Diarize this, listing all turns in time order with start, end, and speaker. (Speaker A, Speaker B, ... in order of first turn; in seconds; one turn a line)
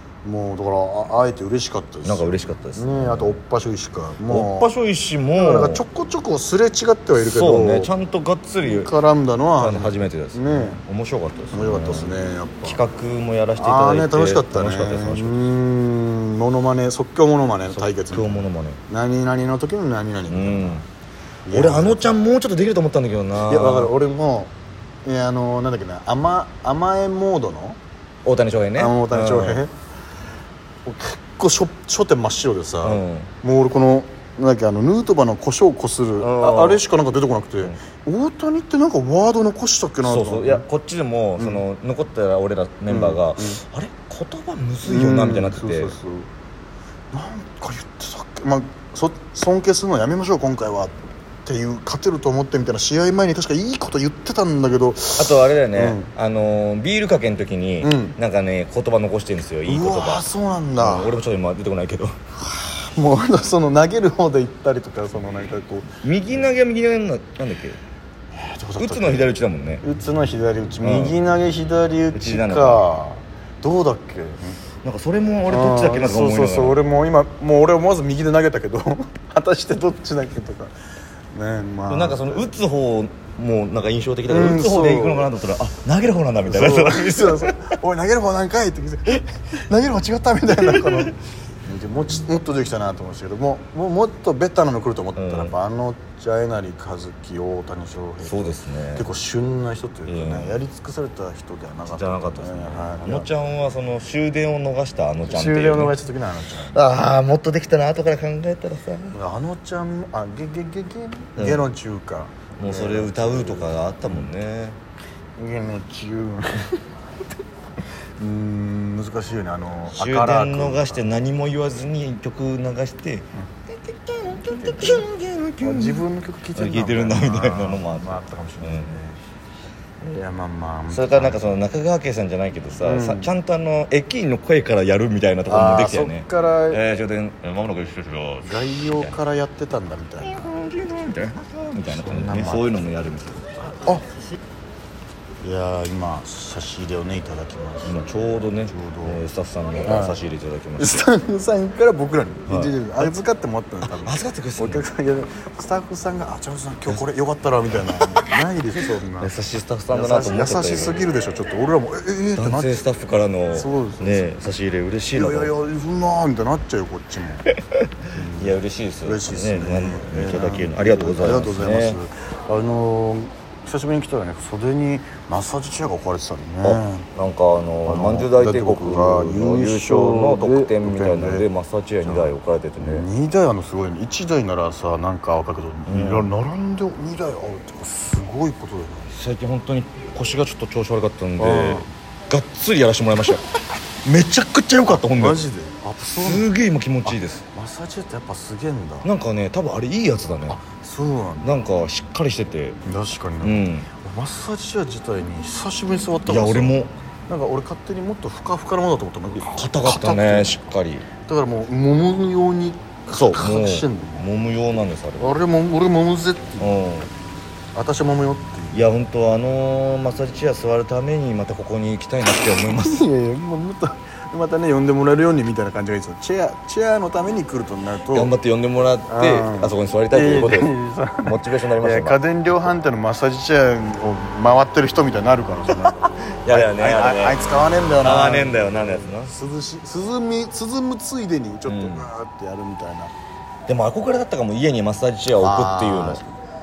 Speaker A: 0.2-4.7
Speaker B: 2.0-3.4
Speaker B: 4.3-5.8
Speaker A: 5.3-7.9
Speaker B: 7.2-8.9
Speaker A: 8.6-10.8
Speaker B: 9.6-15.4
Speaker A: 11.5-12.8
Speaker A: 13.6-20.8
Speaker B: 17.7-18.8
Speaker B: 20.3-20.8
Speaker A: 21.4-22.1
Speaker B: 21.5-23.9
Speaker A: 23.4-24.5
Speaker A: 25.0-27.8
Speaker B: 28.2-29.6
Speaker A: 28.8-29.7
Speaker A: 30.9-40.6
Speaker B: 32.8-33.3
Speaker B: 36.2-36.8
Speaker B: 40.0-46.0
Speaker A: 41.4-41.6
Speaker A: 42.9-43.6
Speaker A: 44.9-46.3
Speaker A: 47.1-50.9
Speaker A: 51.5-56.1
Speaker B: 55.2-60.2
Speaker A: 57.8-58.1
Speaker A: 59.6-61.1
Speaker B: 60.8-62.1
Speaker A: 62.4-66.0
Speaker B: 66.0-67.8
Speaker A: 68.3-74.6
Speaker B: 68.8-69.8
Speaker B: 70.8-71.2
Speaker B: 72.1-72.8
Speaker B: 74.8-76.8
Speaker A: 75.5-80.7
Speaker A: 81.3-82.5
Speaker B: 81.9-87.6
Speaker A: 84.3-85.3
Speaker A: 86.5-103.3
Speaker B: 95.2-95.5
Speaker B: 98.2-99.1
Speaker B: 100.1-100.6
Speaker B: 101.9-105.9
Speaker A: 105.2-106.8
Speaker B: 106.7-109.2
Speaker A: 109.1-113.7
Speaker B: 111.3-111.7
Speaker B: 112.6-114.8
Speaker A: 115.4-116.8
Speaker A: 118.2-121.0
Speaker B: 119.9-126.0
Speaker A: 124.7-125.0
Speaker A: 125.6-129.2
Speaker B: 126.5-129.0
Speaker A: 130.0-131.6
Speaker B: 130.9-139.1
Speaker A: 132.8-133.3
Speaker A: 135.5-136.8
Speaker A: 138.4-140.5
Speaker B: 140.2-143.4
Speaker A: 141.9-142.8
Speaker A: 143.7-144.1
Speaker A: 145.4-149.2
Speaker B: 147.8-151.0
Speaker A: 149.8-150.2
Speaker A: 150.8-159.3
Speaker B: 152.5-153.2
Speaker B: 153.8-154.9
Speaker B: 157.7-158.4
Speaker B: 159.2-161.0
Speaker A: 159.9-162.8
Speaker B: 162.4-165.5
Speaker A: 163.5-164.3
Speaker A: 165.1-167.5
Speaker B: 167.5-172.0
Speaker A: 168.1-177.1
Speaker B: 176.6-183.1
Speaker A: 177.8-181.5
Speaker A: 182.0-189.1
Speaker B: 185.9-186.3
Speaker B: 189.1-193.4
Speaker A: 191.4-191.9
Speaker B: 194.0-195.4
Speaker A: 194.8-196.5
Speaker B: 196.1-197.4
Speaker A: 197.0-199.1
Speaker B: 199.0-200.6
Speaker A: 200.5-201.5
Speaker B: 201.4-202.8
Speaker A: 202.8-210.6
Speaker B: 203.4-203.9
Speaker B: 206.2-206.9
Speaker B: 209.3-211.1
Speaker A: 211.2-214.2
Speaker B: 213.1-215.3
Speaker A: 215.2-216.8
Speaker B: 216.6-217.1
Speaker A: 217.7-218.8
Speaker B: 218.7-223.1
Speaker A: 222.6-228.3
Speaker B: 228.1-232.2
Speaker A: 229.1-243.1
Speaker B: 236.4-237.4
Speaker B: 238.0-239.3
Speaker B: 241.7-242.1
Speaker B: 243.7-246.2
Speaker A: 245.4-246.3